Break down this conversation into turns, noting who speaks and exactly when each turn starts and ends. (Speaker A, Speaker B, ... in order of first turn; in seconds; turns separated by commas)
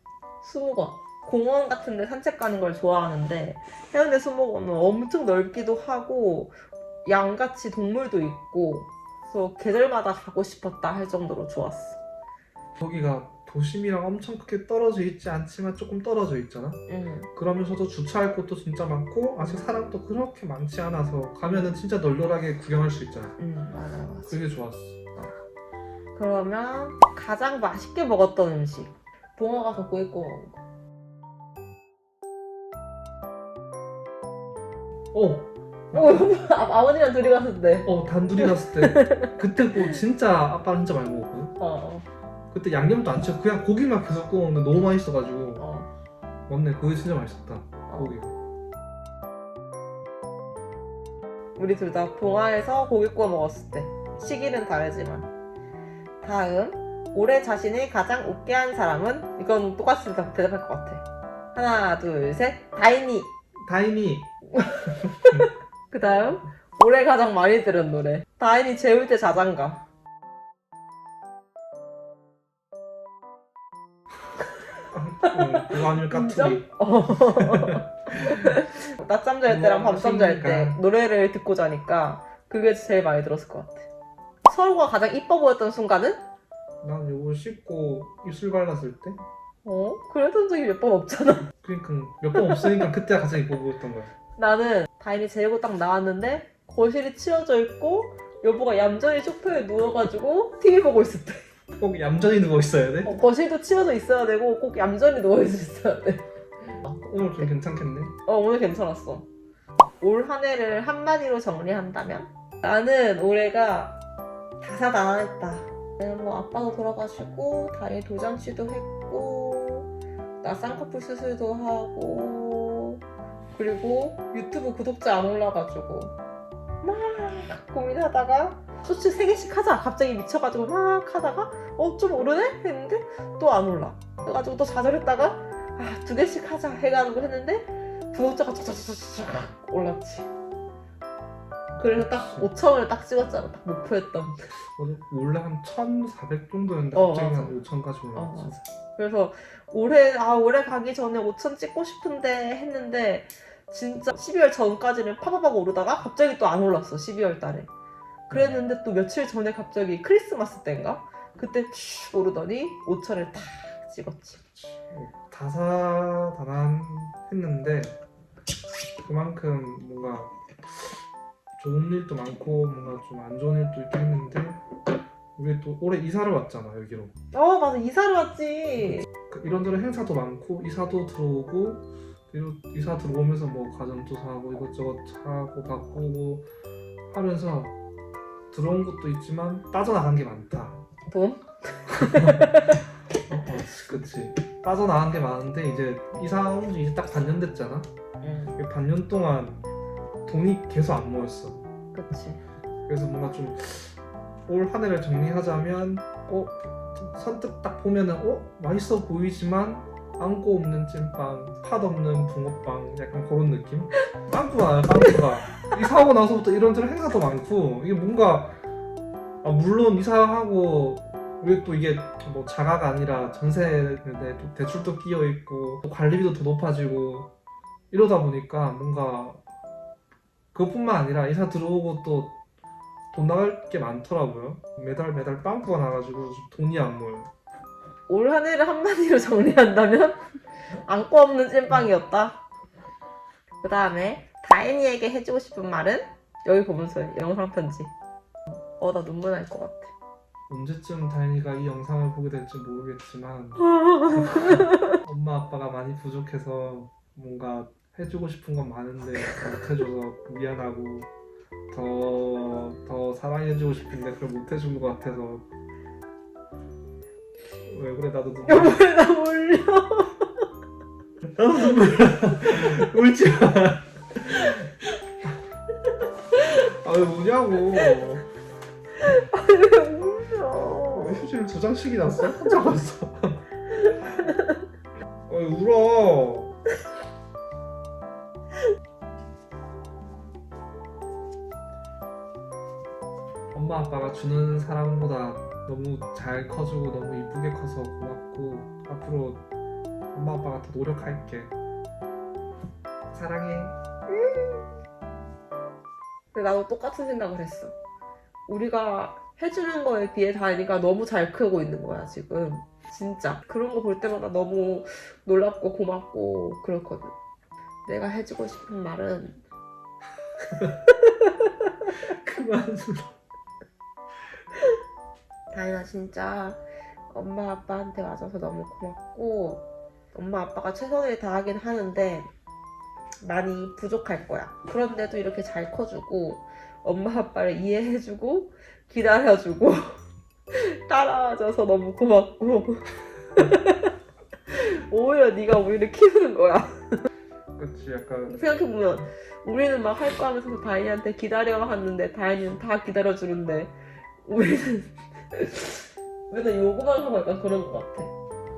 Speaker A: 0.4-12.0, Speaker B: 12.8-16.8, Speaker A: 16.9-17.3, Speaker B: 17.3-23.4, Speaker A: 23.4-24.4, Speaker B: 24.3-25.0, Speaker A: 26.1-30.6, Speaker B: 35.1-36.4, Speaker A: 35.9-40.0, Speaker B: 37.8-41.5, Speaker A: 41.6-42.0, Speaker B: 42.5-45.6, Speaker A: 45.6-45.9, Speaker B: 46.5-48.3, Speaker A: 47.9-48.1, Speaker A: 51.5-55.3, Speaker A: 56.2-63.3, Speaker B: 63.6-64.3, Speaker A: 64.5-69.8, Speaker B: 74.9-78.5, Speaker A: 75.2-83.9, Speaker B: 79.5-80.8, Speaker A: 84.5-86.2, Speaker B: 86.8-89.2, Speaker A: 89.6-91.5, Speaker B: 91.6-94.1, Speaker A: 92.3-92.9, Speaker A: 94.4-101.5, Speaker B: 101.8-103.2, Speaker A: 103.0-107.5, Speaker B: 106.9-108.1, Speaker A: 108.2-109.3, Speaker A: 110.0-114.0, Speaker A: 114.6-119.9, Speaker A: 120.4-123.0, Speaker A: 123.5-126.1, Speaker A: 126.8-140.3, Speaker B: 141.8-142.5, Speaker A: 141.8-144.5, Speaker B: 144.8-148.5, Speaker A: 146.9-157.7, Speaker A: 158.3-164.4, Speaker B: 158.3-158.6, Speaker B: 164.6-168.0, Speaker B: 169.0-171.0, Speaker B: 171.6-174.6, Speaker B: 175.4-177.1, Speaker A: 177.3-179.1, Speaker B: 178.8-186.5, Speaker B: 187.1-187.7, Speaker B: 188.5-190.8, Speaker A: 191.1-192.8, Speaker B: 192.0-192.5, Speaker B: 193.2-197.9, Speaker A: 198.2-198.6, Speaker B: 198.6-199.6, Speaker B: 200.2-201.6, Speaker A: 201.9-202.4, Speaker B: 202.9-218.6, Speaker B: 219.4-227.3, Speaker B: 227.9-229.4, Speaker B: 230.5-232.4, Speaker B: 233.1-237.3, Speaker A: 238.1-240.2, Speaker A: 240.8-242.4, Speaker A: 243.6-247.9, Speaker A: 248.5-249.9, Speaker B: 250.5-261.1, Speaker A: 253.6-254.9, Speaker B: 261.7-265.5, Speaker B: 267.6-268.8, Speaker A: 268.4-270.3, Speaker B: 271.2-274.6, Speaker B: 276.6-278.2, Speaker A: 277.8-278.0, Speaker A: 279.0-281.2, Speaker B: 280.9-283.4, Speaker B: 285.3-286.6, Speaker B: 293.5-299.4, Speaker B: 300.1-301.5, Speaker B: 303.1-303.8, Speaker A: 304.1-304.6, Speaker A: 306.3-307.7, Speaker A: 308.5-317.1, Speaker A: 317.8-319.4, Speaker B: 322.0-323.1, Speaker A: 325.5-332.3, Speaker A: 333.2-340.0, Speaker A: 340.5-343.9, Speaker A: 344.5-347.0, Speaker B: 347.6-348.4, Speaker A: 348.3-358.1